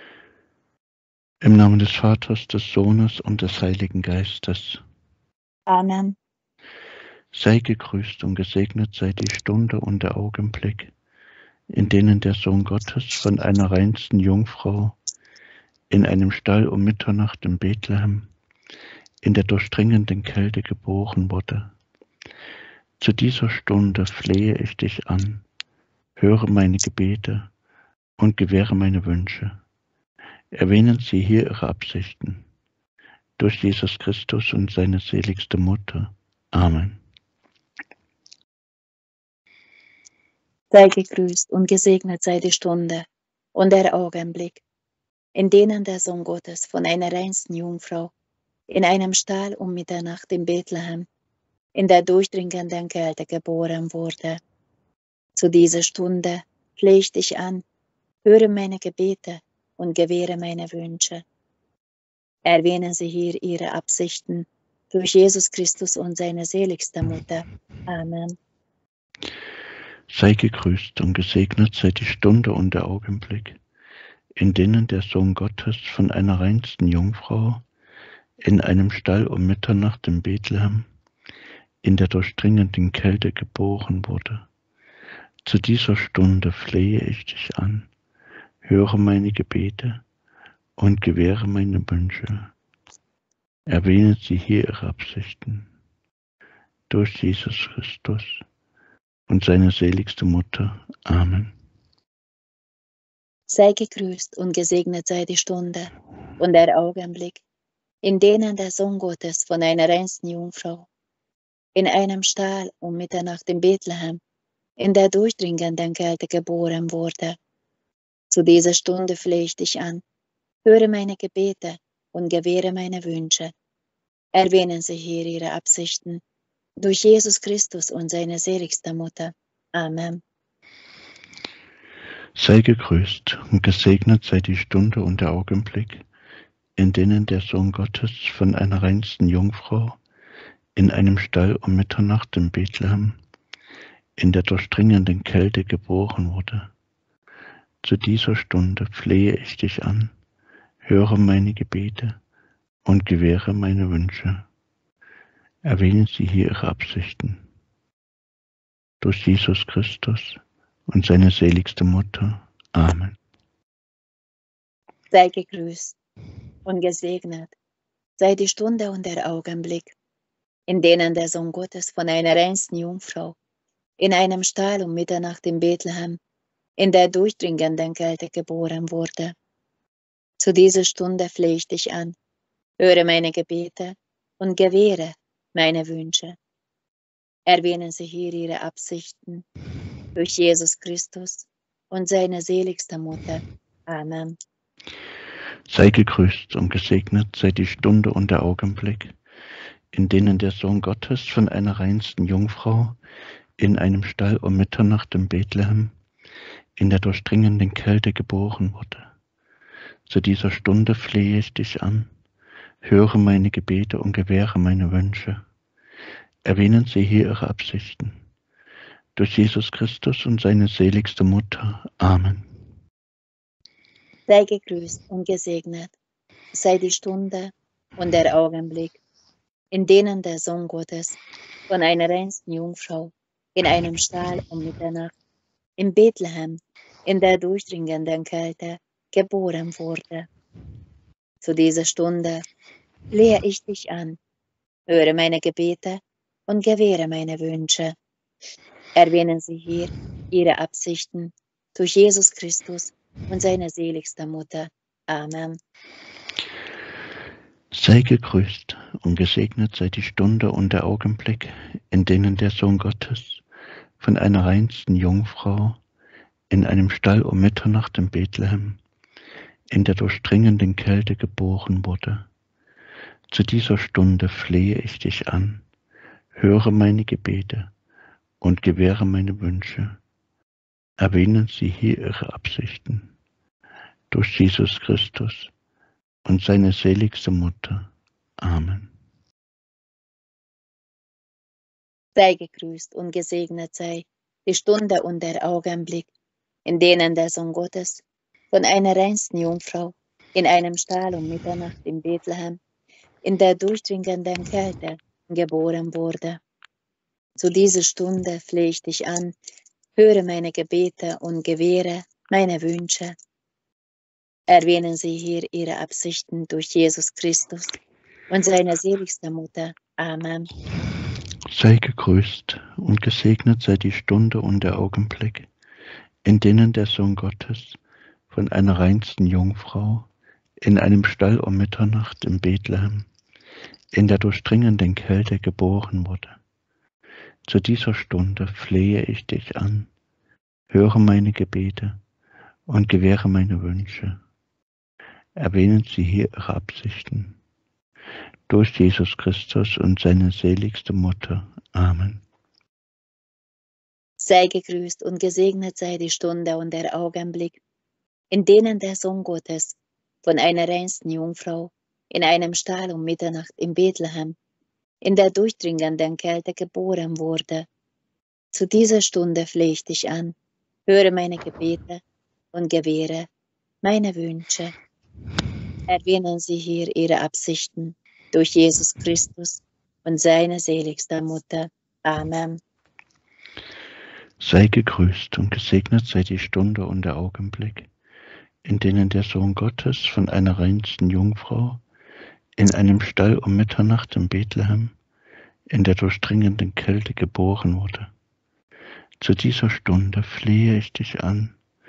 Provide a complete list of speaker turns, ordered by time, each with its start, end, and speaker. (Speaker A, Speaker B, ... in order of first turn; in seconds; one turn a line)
Speaker A: 1.4-4.8
Speaker B: 5.7-6.2
Speaker A: 7.3-10.9
Speaker A: 11.7-15.0
Speaker A: 15.9-18.3
Speaker A: 19.2-21.7
Speaker A: 23.0-25.4
Speaker A: 26.2-27.5
Speaker A: 28.2-29.6
Speaker A: 30.6-32.5
Speaker A: 33.4-37.0
Speaker B: 40.7-44.6
Speaker B: 45.4-48.1
Speaker B: 48.7-51.1
Speaker B: 51.8-54.4
Speaker B: 55.4-57.6
Speaker B: 58.2-61.2
Speaker B: 62.5-68.4
Speaker A: 70.1-73.6
Speaker A: 74.4-77.6
Speaker A: 78.4-80.9
Speaker A: 81.8-84.5
Speaker A: 85.5-87.9
Speaker A: 88.6-90.0
Speaker A: 90.8-92.5
Speaker A: 93.7-95.7
Speaker A: 96.9-98.4
Speaker A: 99.3-101.5
Speaker B: 103.5-107.4
Speaker B: 108.0-110.9
Speaker B: 111.8-114.2
Speaker B: 114.8-117.4
Speaker B: 118.3-120.0
Speaker B: 120.7-123.5
Speaker B: 124.3-126.2
Speaker B: 126.8-130.2
Speaker A: 132.4-136.1
Speaker A: 136.8-140.0
Speaker A: 140.8-143.2
Speaker A: 144.2-146.7
Speaker A: 147.8-150.2
Speaker A: 150.8-152.2
Speaker A: 152.8-154.5
Speaker A: 155.7-157.4
Speaker A: 159.0-163.2
Speaker B: 165.1-165.9
Speaker B: 166.7-167.6
Speaker B: 168.2-169.9
Speaker B: 170.7-173.4
Speaker B: 174.0-176.2
Speaker B: 176.8-179.4
Speaker B: 180.4-182.2
Speaker B: 182.8-186.4
Speaker B: 187.5-189.4
Speaker B: 190.2-194.4
Speaker A: 195.7-199.2
Speaker A: 199.9-203.0
Speaker A: 203.6-205.9
Speaker A: 206.8-209.1
Speaker A: 210.1-212.1
Speaker A: 212.8-215.4
Speaker A: 216.4-218.2
Speaker A: 219.2-222.5
Speaker B: 224.3-225.9
Speaker B: 226.5-229.0
Speaker B: 229.7-235.1
Speaker B: 235.8-240.3
Speaker B: 241.4-242.4
Speaker B: 243.1-244.2
Speaker B: 244.9-247.9
Speaker B: 248.9-255.6
Speaker A: 257.7-263.4
Speaker A: 264.0-265.8
Speaker A: 266.5-268.8
Speaker A: 269.7-272.3
Speaker A: 273.3-275.6
Speaker A: 276.3-277.7
Speaker A: 278.4-280.0
Speaker A: 281.0-283.1
Speaker A: 284.1-285.5
Speaker A: 286.2-287.9
Speaker A: 288.4-288.9
Speaker B: 292.1-296.1
Speaker B: 296.6-302.6
Speaker B: 303.2-306.4
Speaker B: 307.4-309.4
Speaker B: 310.0-313.1
Speaker B: 314.5-317.8
Speaker B: 318.3-320.5
Speaker A: 321.5-325.5
Speaker A: 326.2-327.8
Speaker A: 328.3-330.1
Speaker A: 330.6-333.1
Speaker A: 333.9-336.4
Speaker A: 337.5-339.9
Speaker A: 340.7-342.0
Speaker A: 342.7-344.2
Speaker A: 345.4-347.4
Speaker A: 348.5-352.2
Speaker B: 354.2-357.6
Speaker B: 358.3-364.4
Speaker B: 365.0-367.7
Speaker B: 368.5-370.4
Speaker B: 370.9-372.0
Speaker B: 372.5-373.3
Speaker B: 373.8-374.7
Speaker B: 375.9-382.6
Speaker A: 384.4-387.9
Speaker A: 388.6-391.8
Speaker A: 392.6-395.0
Speaker A: 395.7-398.1
Speaker A: 399.2-401.6